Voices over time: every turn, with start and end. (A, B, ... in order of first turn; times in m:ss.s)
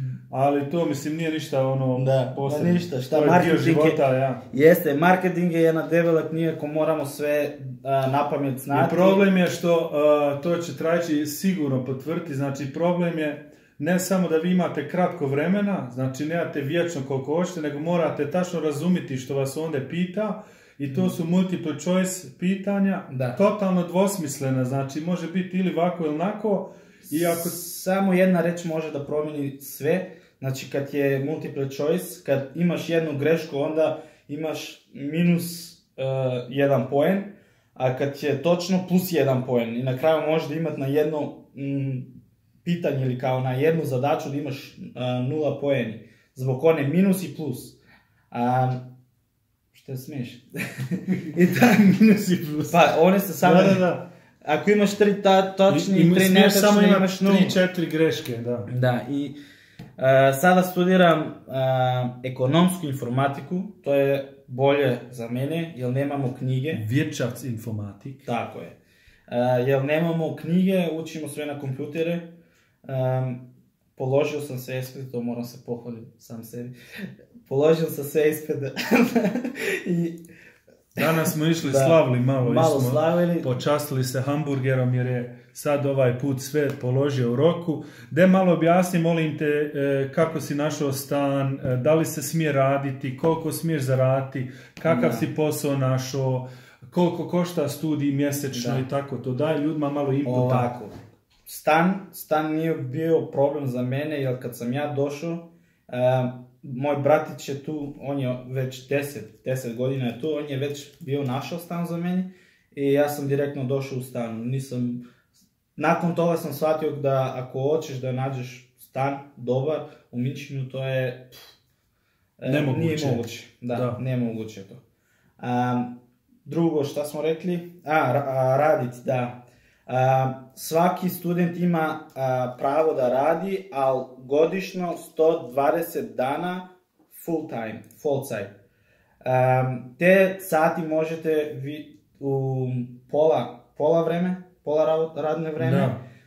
0:00.3-0:04.4 A
0:02.0-0:09.3 B
0:08.7-0:27.6 A
0:23.1-0:23.4 B
0:27.1-0:47.8 B
0:48.3-0:48.9 B
0:49.7-0:51.9 B
0:51.1-0:52.8 A
0:52.7-0:53.9 B
0:53.4-0:54.1 A
0:54.4-0:57.6 B
0:55.7-0:58.7 A
0:58.7-0:59.4 B
1:00.0-1:06.8 B
1:06.7-1:08.2 A
1:08.2-1:08.8 B
1:09.3-1:12.3 B
1:12.8-1:16.8 B
1:17.4-1:20.2 B
1:21.0-1:40.7 A
1:21.6-1:23.6 B
1:34.9-1:35.3 B
1:38.5-1:38.8 B
1:40.2-1:41.0 B
1:41.5-1:55.0 B
1:55.8-2:01.3 B
2:02.4-2:04.8 B
2:02.5-2:04.0 A
2:05.4-2:18.5 B
2:19.2-2:26.0 B
2:25.6-2:26.0 A